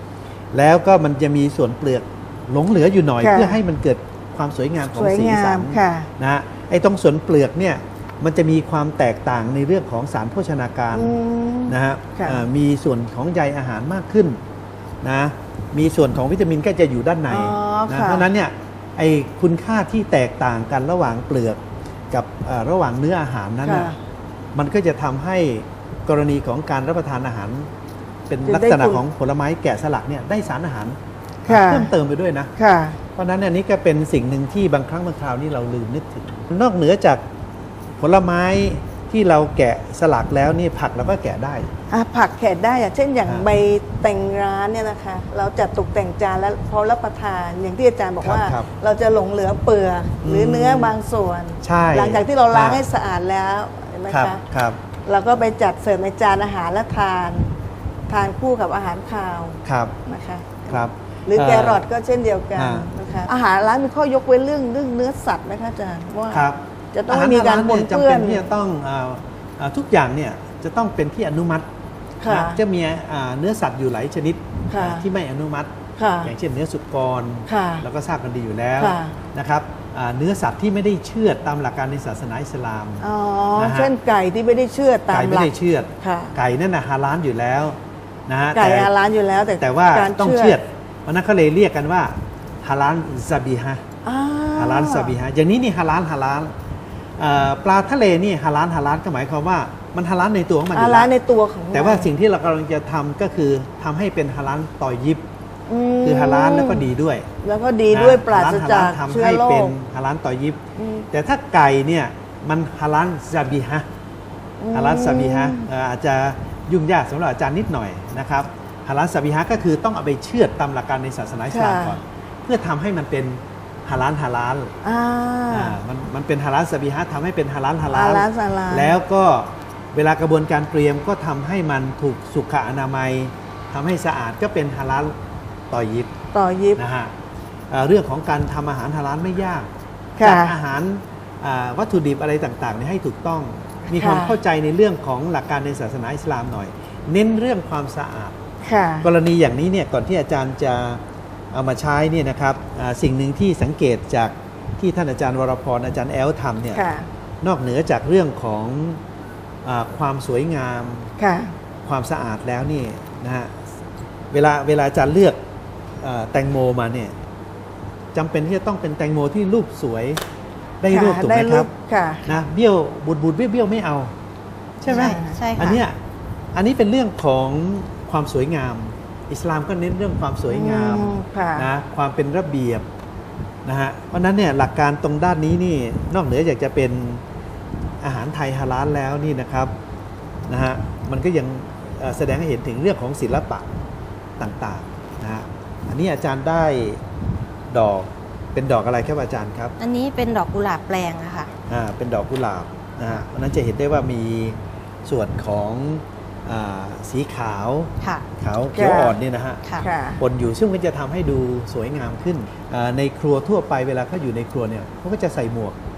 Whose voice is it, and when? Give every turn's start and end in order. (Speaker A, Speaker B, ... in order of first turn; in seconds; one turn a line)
Speaker A: 0.5-11.2
Speaker B: 3.2-3.6
Speaker B: 4.8-6.1
Speaker B: 10.9-12.4
Speaker A: 11.7-14.4
Speaker A: 15.0-23.9
Speaker B: 17.3-18.3
Speaker B: 23.6-24.0
Speaker A: 24.5-27.7
Speaker A: 28.3-32.5
Speaker B: 28.4-29.0
Speaker B: 31.5-31.9
Speaker B: 32.6-33.0
Speaker A: 33.1-37.2
Speaker A: 38.0-41.7
Speaker B: 41.9-54.4
Speaker A: 48.2-48.7
Speaker A: 50.2-50.9
Speaker A: 51.6-52.8
Speaker A: 54.1-54.8
Speaker B: 55.0-57.6
Speaker B: 58.1-68.5
Speaker A: 59.6-59.9
Speaker A: 60.7-61.8
Speaker A: 62.5-62.9
Speaker A: 66.3-71.7
Speaker B: 72.2-72.6
Speaker A: 72.2-83.0
Speaker B: 74.7-75.1
Speaker B: 76.0-76.3
Speaker B: 77.5-77.8
Speaker B: 78.8-79.1
Speaker B: 83.0-86.3
Speaker A: 83.6-83.9
Speaker A: 85.1-88.9
Speaker B: 88.5-90.6
Speaker A: 89.6-93.8
Speaker B: 94.0-95.2
Speaker A: 94.5-96.5
Speaker A: 97.2-101.1
Speaker B: 100.7-102.1
Speaker A: 101.7-105.2
Speaker B: 105.7-106.9
Speaker A: 106.0-107.3
Speaker B: 107.4-109.7
Speaker A: 107.9-113.8
Speaker B: 110.8-111.1
Speaker B: 114.6-115.7
Speaker A: 114.7-124.7
Speaker B: 121.5-122.0
Speaker B: 124.8-125.8
Speaker A: 125.5-135.1
Speaker B: 127.9-128.9
Speaker A: 135.7-136.1
Speaker B: 136.3-136.8
Speaker A: 136.8-137.1
Speaker A: 137.7-139.7
Speaker B: 140.2-140.5
Speaker A: 140.2-148.4
Speaker B: 143.9-144.4
Speaker B: 148.6-149.1
Speaker A: 149.0-151.0
Speaker A: 151.5-156.8
Speaker B: 156.7-157.1
Speaker A: 157.4-159.0
Speaker A: 159.6-161.1
Speaker B: 161.2-161.6
Speaker A: 161.8-163.6
Speaker A: 164.3-165.4
Speaker A: 166.0-167.1
Speaker A: 168.1-170.2
Speaker A: 170.8-171.7
Speaker B: 170.9-172.3
Speaker A: 172.2-174.1
Speaker A: 174.8-176.0
Speaker C: 174.9-175.8
Speaker B: 174.9-175.4
Speaker A: 176.5-182.8
Speaker B: 180.5-181.7
Speaker A: 183.6-187.2
Speaker A: 188.0-189.7
Speaker A: 190.5-193.7
Speaker A: 194.4-197.0
Speaker A: 197.7-199.7
Speaker C: 199.8-201.5
Speaker A: 201.7-209.6
Speaker B: 208.7-209.2
Speaker B: 209.8-210.2
Speaker A: 210.2-215.8